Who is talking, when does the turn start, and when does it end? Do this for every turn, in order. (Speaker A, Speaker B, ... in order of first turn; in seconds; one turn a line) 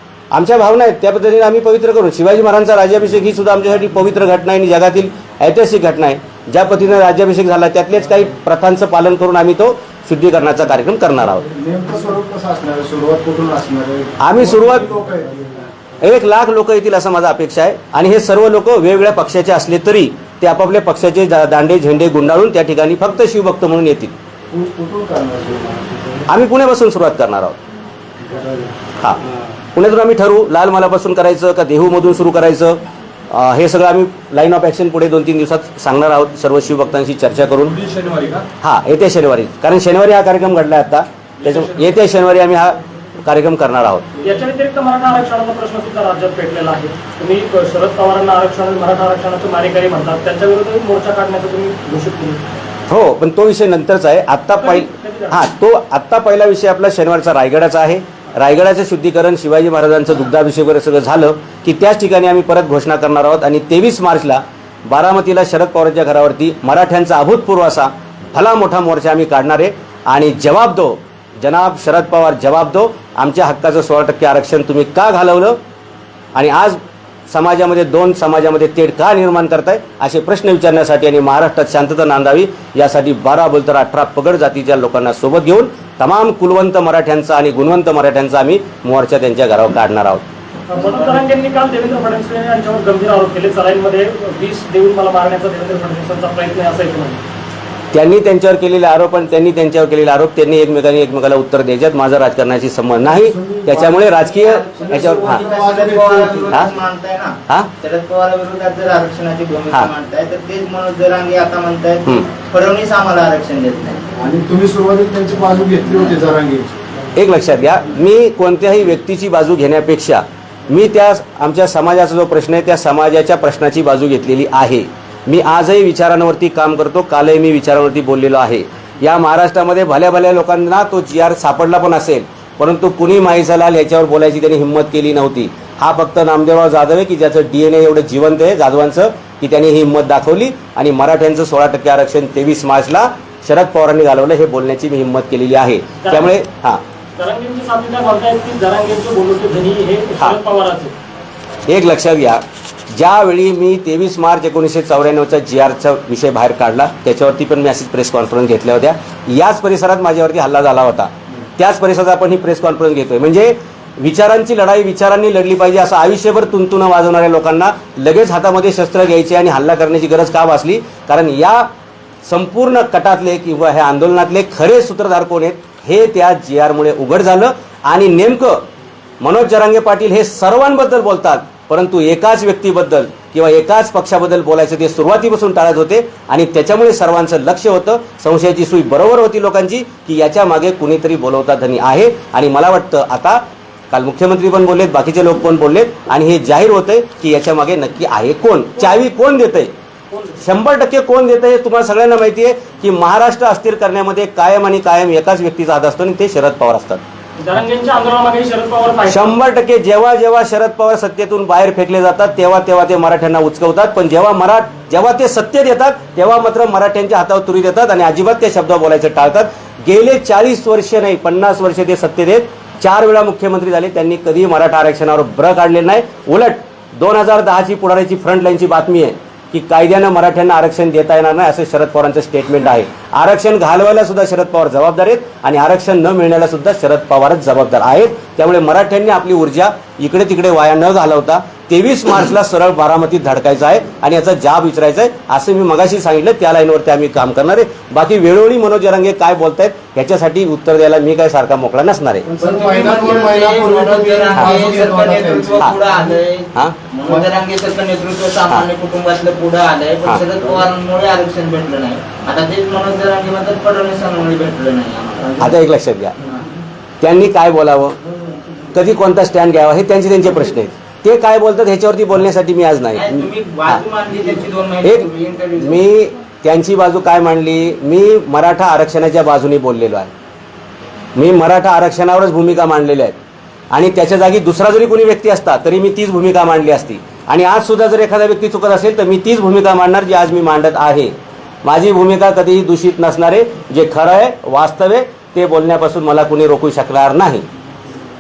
Speaker A: 0.3-11.5
Speaker B: 11.4-15.5
Speaker A: 14.2-14.9
Speaker A: 16.0-24.1
Speaker B: 24.5-26.2
Speaker A: 26.3-27.6
Speaker B: 28.2-28.7
Speaker A: 29.7-37.9
Speaker A: 38.6-44.1
Speaker C: 44.2-52.4
Speaker A: 52.9-75.6
Speaker C: 54.6-55.4
Speaker A: 76.3-90.3
Speaker C: 90.7-97.2
Speaker A: 97.9-105.5
Speaker B: 103.1-104.1
Speaker D: 104.2-114.1
Speaker B: 104.8-106.7
Speaker A: 106.5-106.8
Speaker B: 114.2-116.8
Speaker D: 115.8-116.2
Speaker A: 117.1-146.8
Speaker C: 146.0-146.3
Speaker C: 147.2-150.9
Speaker A: 151.7-171.7
Speaker A: 172.2-178.7
Speaker A: 179.2-199.7
Speaker A: 200.4-207.0
Speaker C: 207.4-209.3
Speaker A: 209.1-252.3
Speaker B: 252.2-256.2
Speaker D: 252.4-265.4
Speaker A: 265.4-266.2
Speaker D: 266.2-266.5
Speaker A: 267.0-268.0
Speaker A: 268.7-273.8
Speaker D: 272.9-275.8
Speaker A: 274.8-280.1
Speaker A: 281.1-283.2
Speaker A: 283.7-297.5